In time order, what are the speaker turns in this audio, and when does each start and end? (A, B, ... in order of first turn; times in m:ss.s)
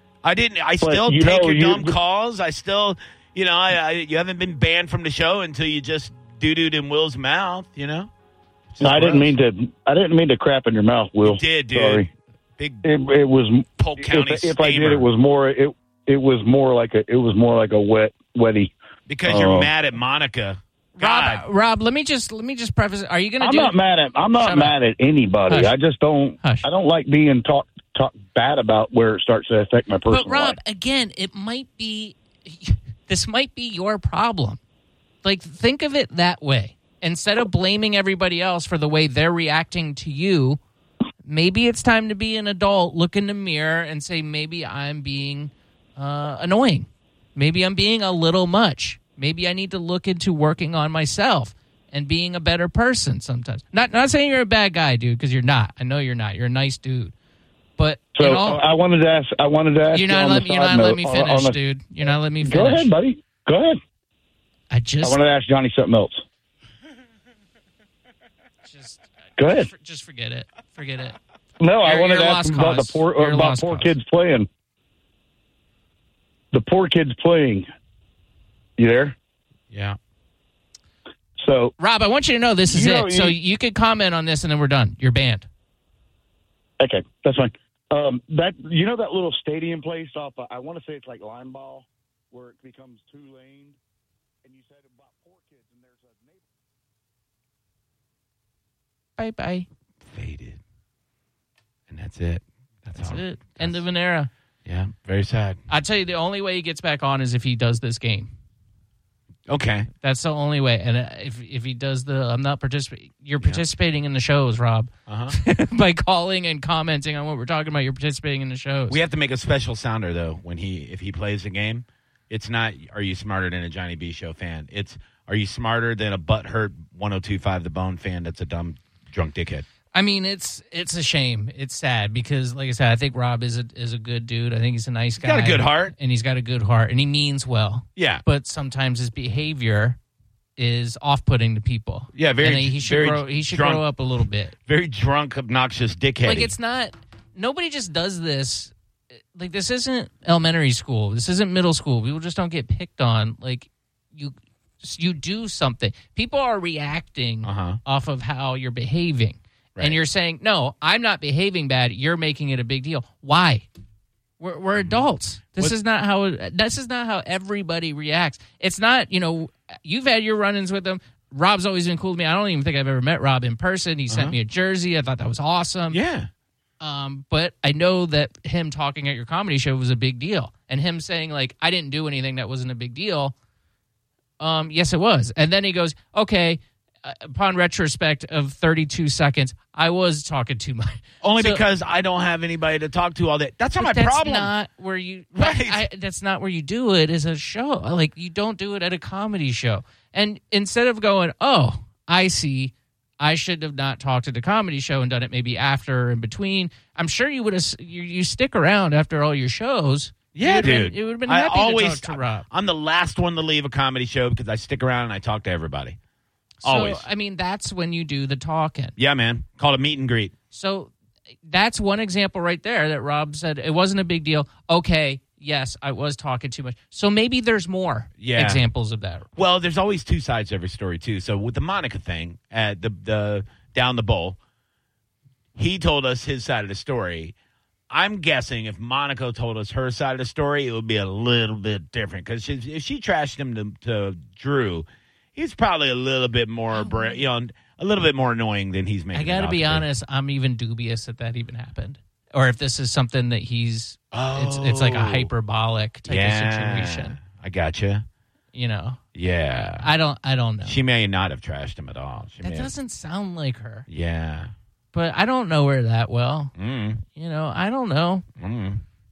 0:00.2-0:08.1 A
0:00.8-0:02.0 B
0:08.7-0:09.3 A
0:08.8-0:12.1 B
0:11.2-0:12.0 A
0:12.6-0:12.8 A
0:12.8-0:18.7 B
0:13.8-0:15.1 A
0:19.1-0:21.4 A
0:19.3-0:19.7 B
0:21.0-0:23.8 C
0:23.4-0:30.6 B
0:24.3-0:24.8 C
0:25.5-0:25.7 C
0:30.1-0:34.6 C
0:35.2-0:40.6 C
0:41.2-0:57.1 C
0:57.8-0:58.6 C
0:58.2-1:01.6 B
0:59.9-1:02.9 C
1:02.4-1:03.8 B
1:04.7-1:05.2 C
1:05.0-1:06.2 B
1:08.7-1:11.2 C
1:09.4-1:09.7 B
1:11.6-1:14.5 B
1:11.8-1:13.9 C
1:16.5-1:17.6 B
1:18.8-1:19.2 B
1:19.7-1:20.0 A
1:21.4-1:21.7 B
1:21.8-1:25.5 C
1:22.7-1:23.4 B
1:26.8-1:33.8 B
1:34.4-1:36.4 B
1:39.2-1:39.7 C
1:40.0-1:40.6 A
1:41.9-1:43.8 A
1:42.9-1:44.3 C
1:44.7-1:45.6 A
1:45.7-1:48.3 C
1:49.5-1:49.9 A
1:50.0-1:59.0 C
1:55.1-1:55.4 A
1:58.9-2:09.6 A
2:09.9-2:20.0 C
2:15.2-2:15.9 A
2:18.0-2:18.2 A
2:20.6-2:24.5 C
2:22.1-2:23.8 A
2:24.7-2:26.5 A
2:26.2-2:28.7 C
2:29.4-2:43.7 C
2:37.4-2:37.8 A
2:44.4-2:56.0 C
2:44.8-2:45.0 A
2:54.1-2:54.4 A
2:55.9-2:56.3 A
2:56.8-3:03.3 C
3:04.4-3:11.6 C
3:11.2-3:14.5 A
3:13.8-3:32.5 C
3:15.4-3:15.8 A
3:30.3-3:36.0 A
3:36.6-3:39.0 C
3:36.6-3:37.0 A
3:39.0-3:40.3 A
3:40.5-3:40.9 C
3:41.5-3:49.3 C
3:48.2-3:48.6 A
3:49.4-3:54.4 A
3:55.6-3:57.3 A
3:57.9-4:09.9 A
4:06.7-4:07.2 C
4:09.1-4:17.2 C
4:14.1-4:15.3 A
4:16.1-4:18.0 A
4:18.5-4:19.0 C
4:19.2-4:19.9 A
4:19.8-4:20.8 C
4:20.6-4:22.7 A
4:22.4-4:23.9 C
4:23.9-4:24.5 A
4:24.9-4:26.5 C
4:26.6-4:27.0 A
4:27.0-4:28.2 C
4:28.4-4:28.8 A